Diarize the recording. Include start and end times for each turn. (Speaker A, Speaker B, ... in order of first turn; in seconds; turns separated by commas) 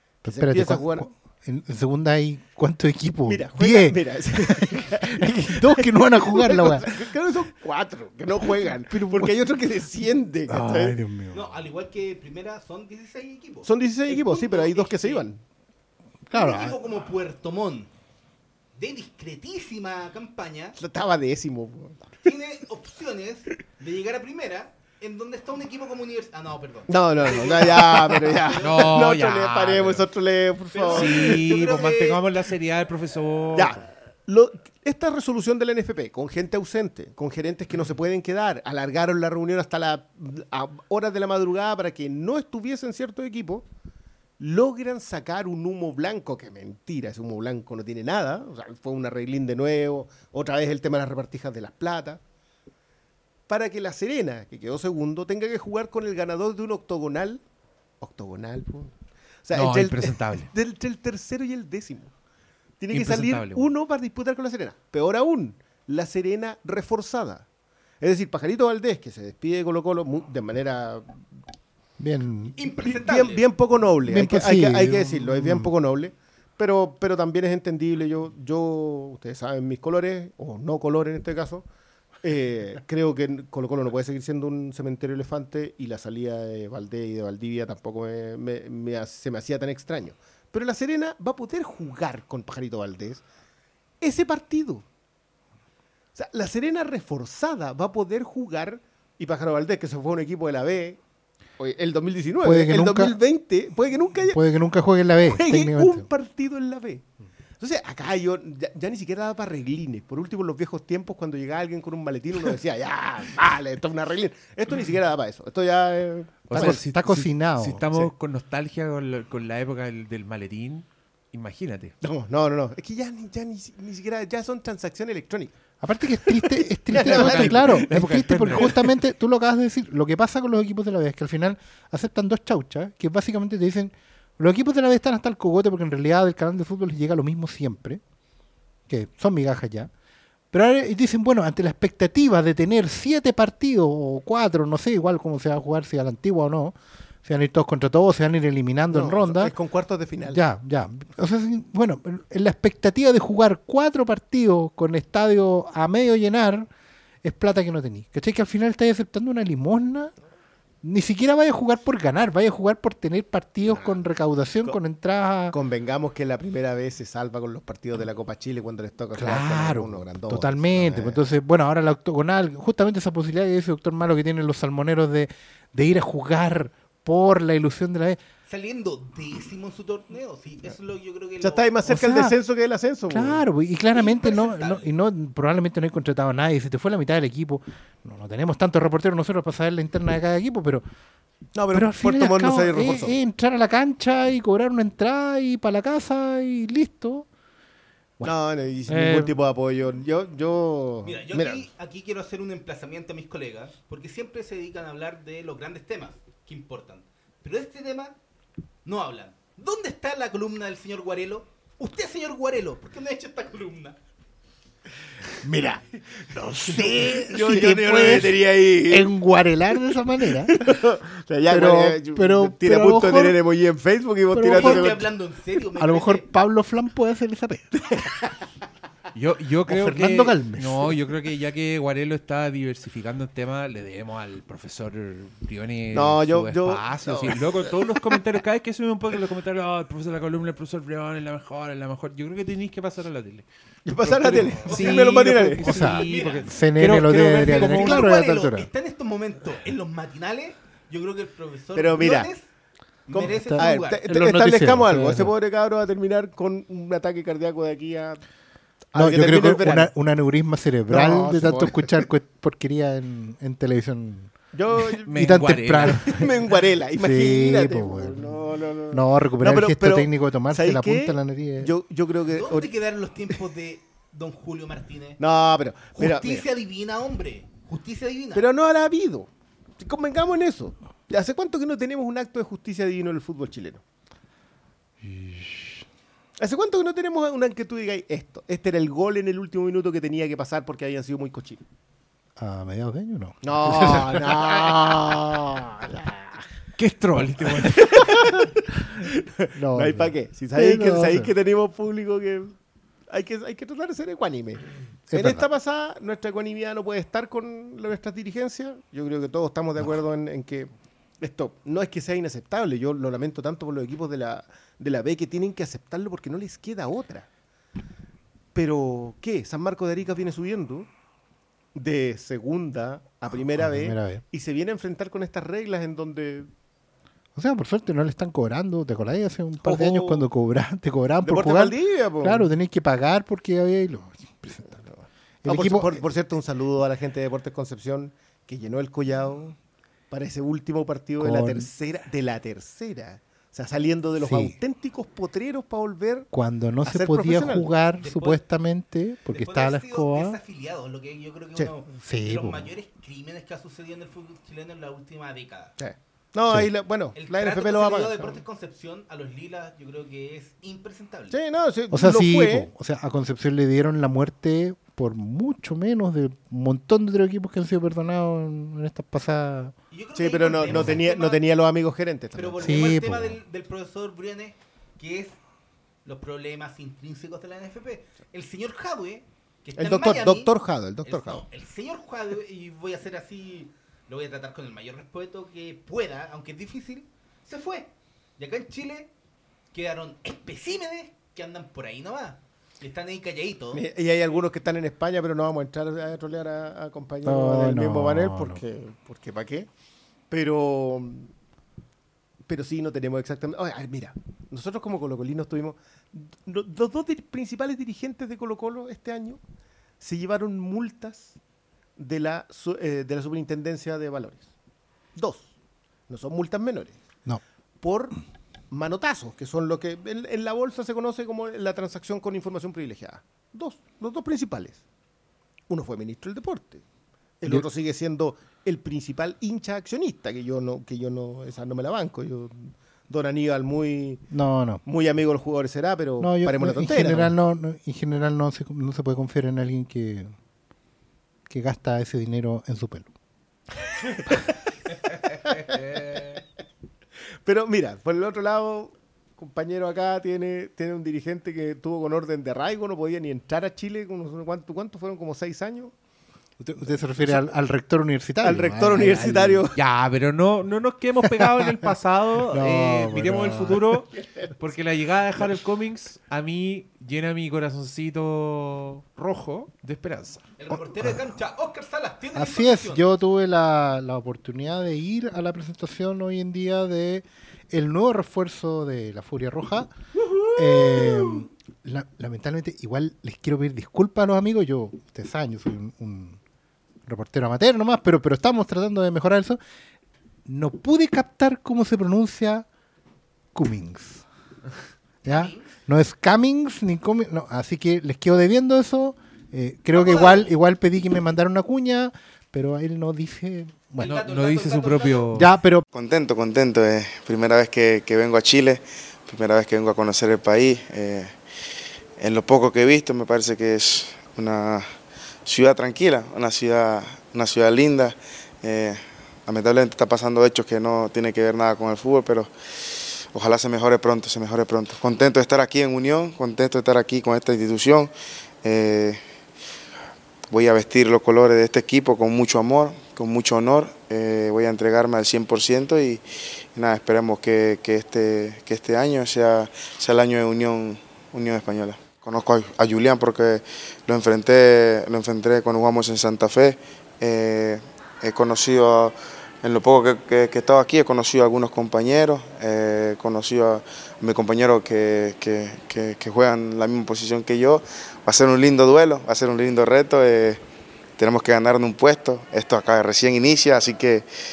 Speaker A: 0.2-6.9, Speaker B: 0.2-1.1, Speaker B: 3.3-11.0, Speaker A: 8.9-9.4, Speaker A: 10.5-11.5, Speaker C: 11.3-15.3, Speaker B: 13.7-15.4, Speaker A: 16.3-16.8, Speaker C: 16.3-17.9, Speaker C: 18.8-20.8, Speaker B: 20.8-22.2, Speaker C: 22.2-28.8, Speaker B: 26.9-31.4, Speaker D: 28.6-30.1, Speaker C: 30.7-32.2, Speaker D: 30.9-33.8, Speaker B: 33.6-43.7, Speaker B: 44.4-52.2, Speaker B: 53.5-57.4, Speaker B: 58.0-62.1, Speaker D: 59.5-60.5, Speaker B: 62.8-67.5, Speaker D: 62.9-63.7, Speaker B: 68.0-71.3, Speaker A: 72.0-72.6, Speaker C: 72.6-73.5, Speaker B: 72.9-81.7, Speaker A: 74.1-75.7, Speaker B: 82.2-93.2, Speaker B: 94.0-94.8, Speaker B: 96.2-101.0, Speaker B: 101.6-104.4, Speaker A: 102.4-103.2, Speaker A: 104.3-106.1, Speaker B: 105.2-107.0, Speaker B: 107.6-116.8, Speaker D: 116.5-121.9, Speaker A: 116.5-117.8, Speaker B: 122.0-125.6, Speaker A: 125.8-138.0, Speaker B: 126.2-128.8, Speaker D: 127.0-128.8, Speaker A: 138.9-139.9, Speaker A: 140.5-149.5, Speaker B: 148.9-150.4, Speaker A: 150.2-156.7, Speaker A: 157.2-160.1, Speaker A: 160.8-165.6, Speaker B: 163.7-164.0, Speaker B: 165.5-171.3, Speaker A: 169.1-178.2, Speaker C: 178.5-181.7, Speaker B: 181.4-183.4, Speaker A: 181.9-182.3, Speaker A: 183.1-190.8, Speaker C: 183.9-184.9, Speaker B: 191.6-193.2, Speaker A: 191.7-197.3, Speaker B: 198.2-201.7, Speaker A: 198.9-199.3, Speaker C: 201.0-208.2, Speaker C: 208.8-214.0, Speaker B: 215.4-215.8, Speaker A: 216.3-220.7, Speaker B: 216.6-219.1, Speaker B: 220.4-225.1, Speaker A: 221.5-223.4, Speaker A: 224.3-225.1, Speaker C: 224.5-226.3, Speaker A: 225.8-227.8, Speaker D: 229.1-243.5, Speaker A: 229.7-230.9, Speaker B: 235.9-237.7, Speaker B: 243.9-245.7, Speaker D: 244.0-248.1, Speaker C: 244.7-245.1, Speaker A: 245.6-248.7, Speaker C: 246.0-246.5, Speaker C: 247.4-252.5, Speaker B: 251.8-252.3, Speaker C: 253.1-254.0, Speaker B: 253.1-258.2, Speaker A: 253.4-255.3, Speaker B: 258.9-259.9, Speaker A: 258.9-264.3, Speaker B: 260.9-262.0, Speaker B: 264.5-272.7, Speaker D: 265.1-266.2, Speaker A: 265.1-268.4, Speaker A: 268.9-271.7, Speaker C: 272.3-275.2, Speaker B: 275.2-276.4, Speaker C: 275.9-278.4, Speaker B: 278.3-283.8, Speaker A: 285.0-285.9, Speaker B: 286.4-291.6, Speaker A: 292.4-295.4, Speaker B: 293.4-296.3, Speaker D: 296.8-298.5, Speaker B: 297.6-302.6, Speaker A: 299.5-301.3, Speaker B: 303.1-317.3, Speaker A: 305.1-305.4, Speaker B: 318.5-320.9, Speaker B: 321.8-326.5, Speaker A: 323.6-324.2, Speaker A: 327.4-334.8, Speaker B: 329.6-330.3, Speaker B: 331.2-332.5, Speaker B: 334.7-339.6, Speaker A: 335.4-336.0, Speaker B: 340.1-346.3, Speaker A: 341.2-341.7, Speaker A: 344.2-344.6, Speaker A: 346.3-350.4, Speaker B: 346.9-347.7, Speaker C: 348.0-348.4, Speaker C: 349.3-355.8, Speaker A: 351.6-352.7, Speaker B: 355.8-358.4, Speaker C: 357.1-361.4, Speaker B: 361.3-362.7, Speaker A: 361.9-369.8, Speaker C: 369.9-371.4, Speaker B: 370.1-372.8, Speaker A: 370.6-371.0, Speaker C: 372.4-375.4, Speaker A: 372.6-373.4, Speaker C: 376.1-380.5, Speaker B: 379.8-381.4, Speaker C: 381.0-389.1, Speaker C: 389.7-393.8, Speaker B: 393.7-399.7, Speaker A: 397.2-398.6, Speaker B: 400.3-401.3, Speaker B: 402.5-409.4, Speaker B: 410.0-411.4, Speaker B: 412.0-414.5, Speaker B: 415.2-415.5, Speaker B: 416.1-417.0, Speaker B: 417.8-418.2, Speaker B: 418.7-424.8, Speaker B: 425.7-426.8, Speaker B: 427.4-434.2, Speaker A: 434.3-434.8, Speaker B: 434.9-437.3, Speaker A: 436.2-440.3, Speaker A: 441.5-443.1, Speaker B: 444.0-446.4, Speaker B: 447.4-455.9, Speaker A: 456.6-459.6, Speaker B: 457.2-457.5, Speaker B: 458.4-459.8, Speaker D: 458.9-470.5, Speaker A: 461.3-461.9, Speaker A: 462.5-464.0, Speaker B: 464.1-464.5, Speaker C: 470.6-473.1, Speaker A: 470.7-471.2, Speaker A: 472.3-479.9, Speaker B: 480.3-481.5, Speaker A: 480.6-486.4, Speaker A: 487.1-489.6, Speaker A: 490.5-492.7, Speaker A: 493.6-494.3, Speaker C: 495.2-495.7, Speaker A: 495.2-504.1, Speaker C: 499.9-500.5, Speaker C: 504.0-505.3, Speaker D: 504.0-505.5, Speaker A: 505.3-505.9, Speaker E: 505.9-511.4, Speaker E: 512.2-514.9, Speaker E: 515.5-522.5, Speaker E: 523.3-528.1, Speaker E: 528.6-529.2, Speaker E: 530.5-536.2, Speaker E: 536.8-560.6, Speaker E: 561.2-564.3